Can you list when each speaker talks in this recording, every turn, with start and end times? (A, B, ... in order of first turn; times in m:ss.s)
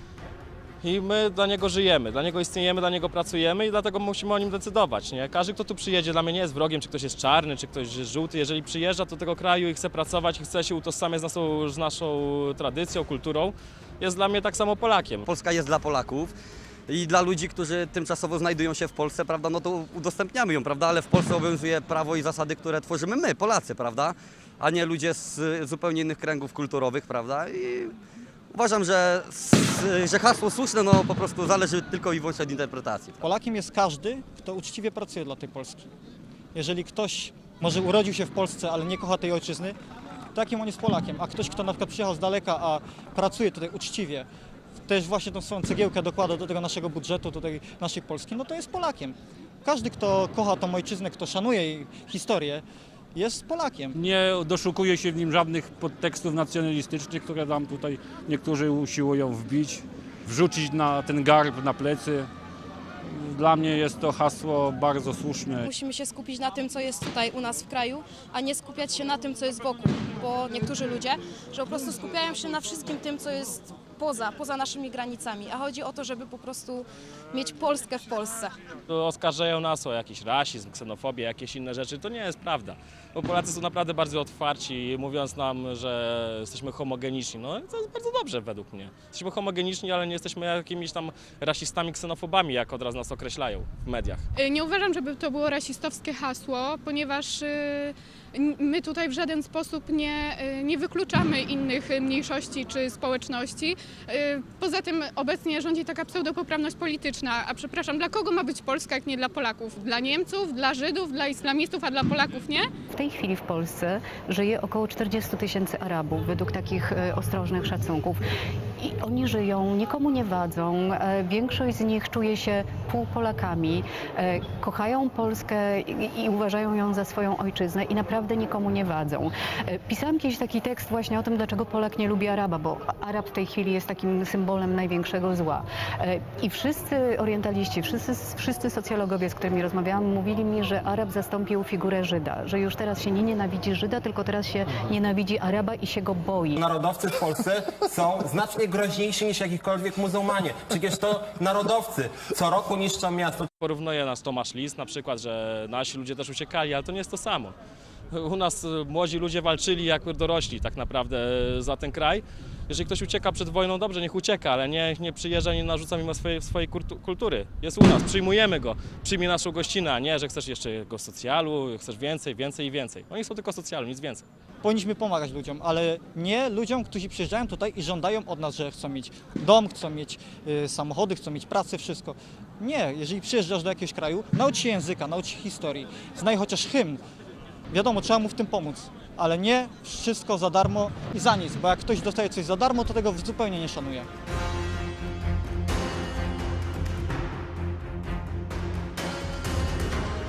0:00.8-0:15.3 A
0:15.3-0:16.4 B
0:16.9-0:27.9 B
0:28.5-0:33.2 B
0:33.2-0:35.9 C
0:36.6-0:39.8 C
0:40.3-0:44.3 C
0:44.9-0:52.6 C
0:53.2-0:53.9 C
0:53.9-1:02.3 D
1:03.0-1:05.7 D
1:05.6-1:18.5 E
1:18.9-1:34.2 A
1:34.4-1:52.7 F
1:52.9-1:58.2 G
1:58.8-2:26.6 G
2:26.6-2:33.5 H
2:33.6-2:37.6 A
2:38.1-2:54.2 A
2:54.6-3:07.0 C
3:07.7-3:14.1 C